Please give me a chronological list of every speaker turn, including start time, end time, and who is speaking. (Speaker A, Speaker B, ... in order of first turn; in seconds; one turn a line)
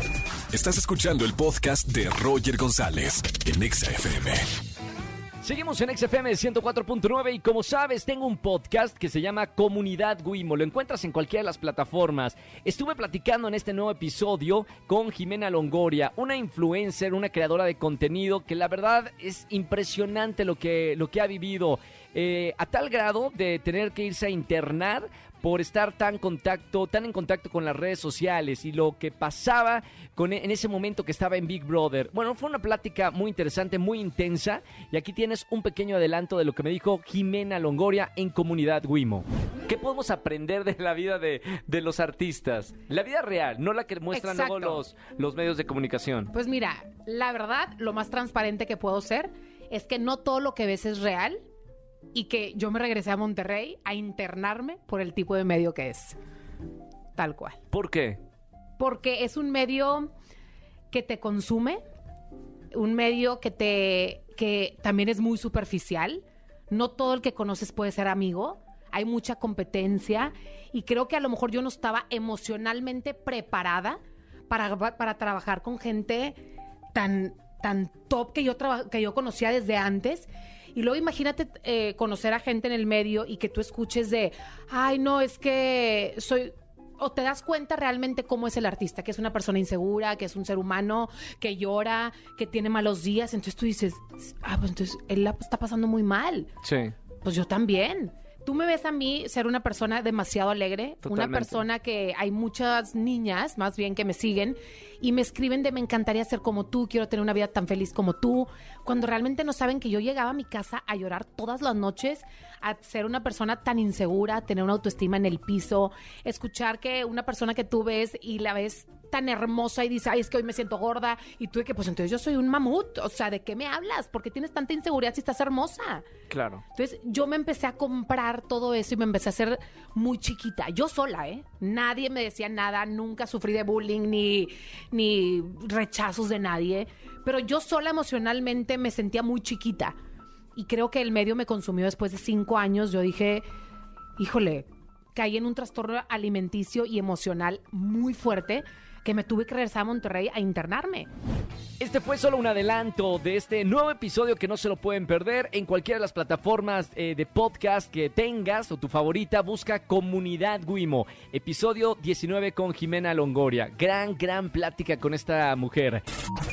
Speaker A: 0.5-4.4
Speaker B: 5.4-46.3
Speaker C: 44.1-44.8
Speaker C: 46.3-51.4
Speaker C: 52.1-56.2
Speaker C: 57.2-57.6
Speaker B: 57.7-58.2
Speaker C: 58.8-60.1
Speaker C: 60.9-61.8
Speaker C: 62.7-76.4
Speaker C: 77.0-96.5
Speaker B: 96.6-96.9
Speaker C: 97.2-126.1
Speaker B: 101.0-101.6
Speaker B: 126.3-126.6
Speaker C: 126.7-140.0
Speaker C: 140.6-143.5
Speaker C: 144.2-151.1
Speaker B: 151.8-166.0